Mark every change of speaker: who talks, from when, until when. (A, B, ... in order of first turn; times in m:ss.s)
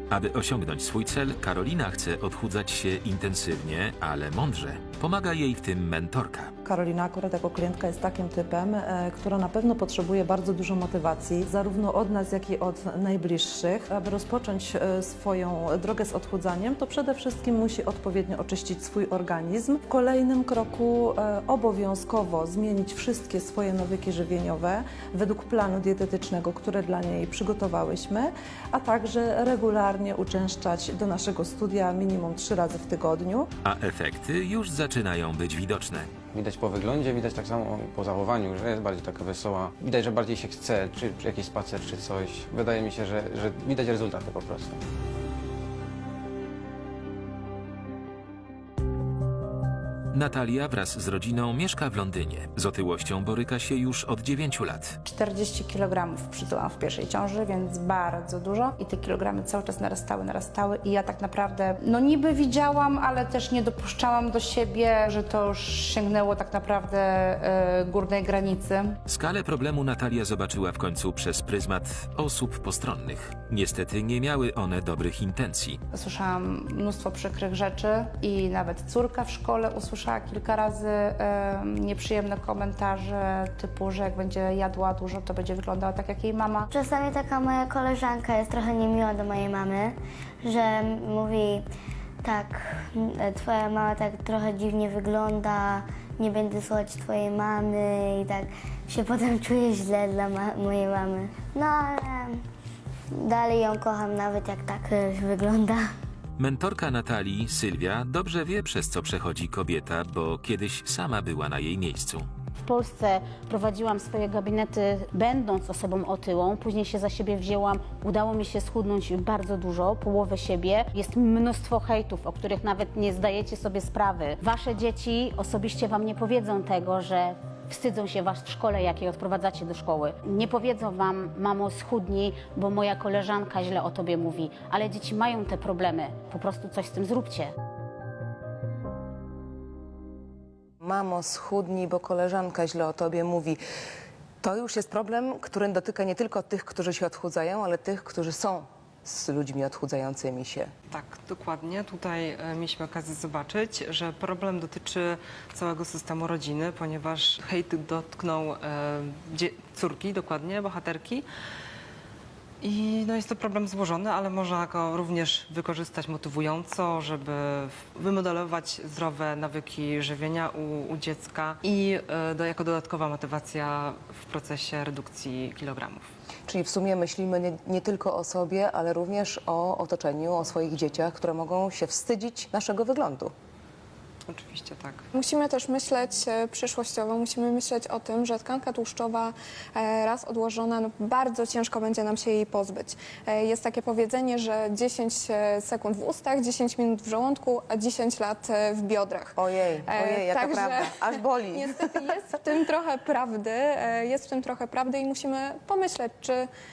0:00.1-0:06.5 A
0:06.6-0:33.5 B
0:33.6-0:36.1 A
0:36.3-0:44.8 C
0:50.1-0:55.0 A
0:55.0-1:09.0 D
1:09.1-1:15.8 A
1:15.9-1:26.6 D
1:26.7-1:31.6 E
1:32.2-1:42.4 E
1:43.1-1:45.8 E
1:46.4-1:52.3 A
1:52.6-2:17.5 F
2:20.8-2:23.6 G
2:24.4-2:30.7 G
2:30.9-2:41.2 H
2:42.6-2:56.1 H
2:56.5-3:03.3 G
3:04.3-3:05.0 H
3:05.1-3:19.3 I
3:19.4-3:21.9 G
3:19.9-3:20.9 I
3:21.5-3:26.5 I